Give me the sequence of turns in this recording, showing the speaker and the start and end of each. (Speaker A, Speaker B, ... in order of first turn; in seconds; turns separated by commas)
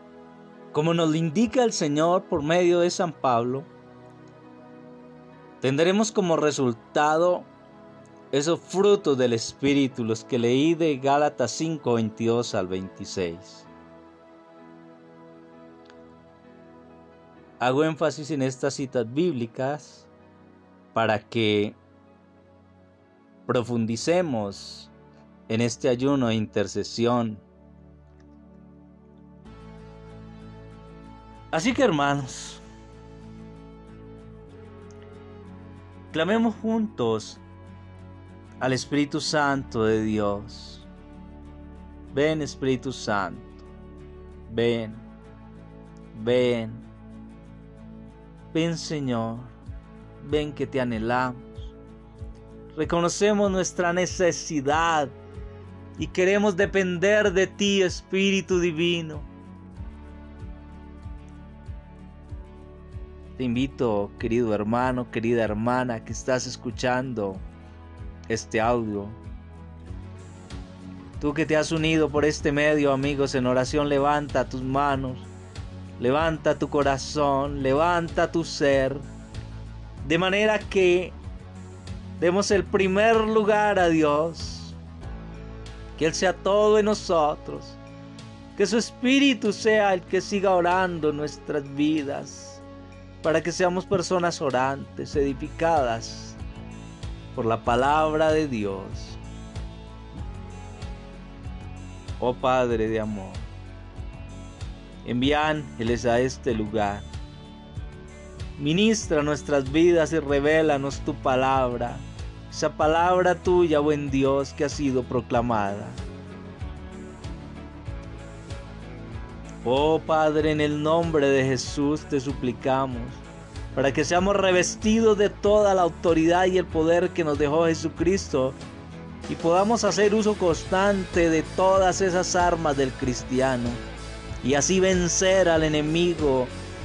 Speaker A: 0.7-3.7, Speaker A: 5.6-7.5, Speaker A: 8.3-13.7, Speaker A: 17.6-20.1, Speaker A: 20.9-21.8, Speaker A: 23.4-24.9, Speaker A: 25.5-27.4, Speaker A: 31.5-32.6, Speaker A: 36.1-37.4, Speaker A: 38.6-40.9, Speaker A: 42.1-43.7, Speaker A: 44.5-45.1, Speaker A: 46.1-46.9, Speaker A: 48.5-49.5, Speaker A: 50.2-51.7, Speaker A: 52.7-55.1, Speaker A: 56.0-59.3, Speaker A: 63.4-67.4, Speaker A: 68.3-69.2, Speaker A: 71.2-75.3, Speaker A: 76.0-79.1, Speaker A: 80.0-81.2, Speaker A: 82.2-84.8, Speaker A: 86.0-87.8, Speaker A: 88.5-92.6, Speaker A: 93.2-96.4, Speaker A: 97.3-99.2, Speaker A: 102.2-103.5, Speaker A: 105.0-107.1, Speaker A: 108.6-116.0, Speaker A: 119.6-128.6, Speaker A: 129.3-133.8, Speaker A: 134.4-136.5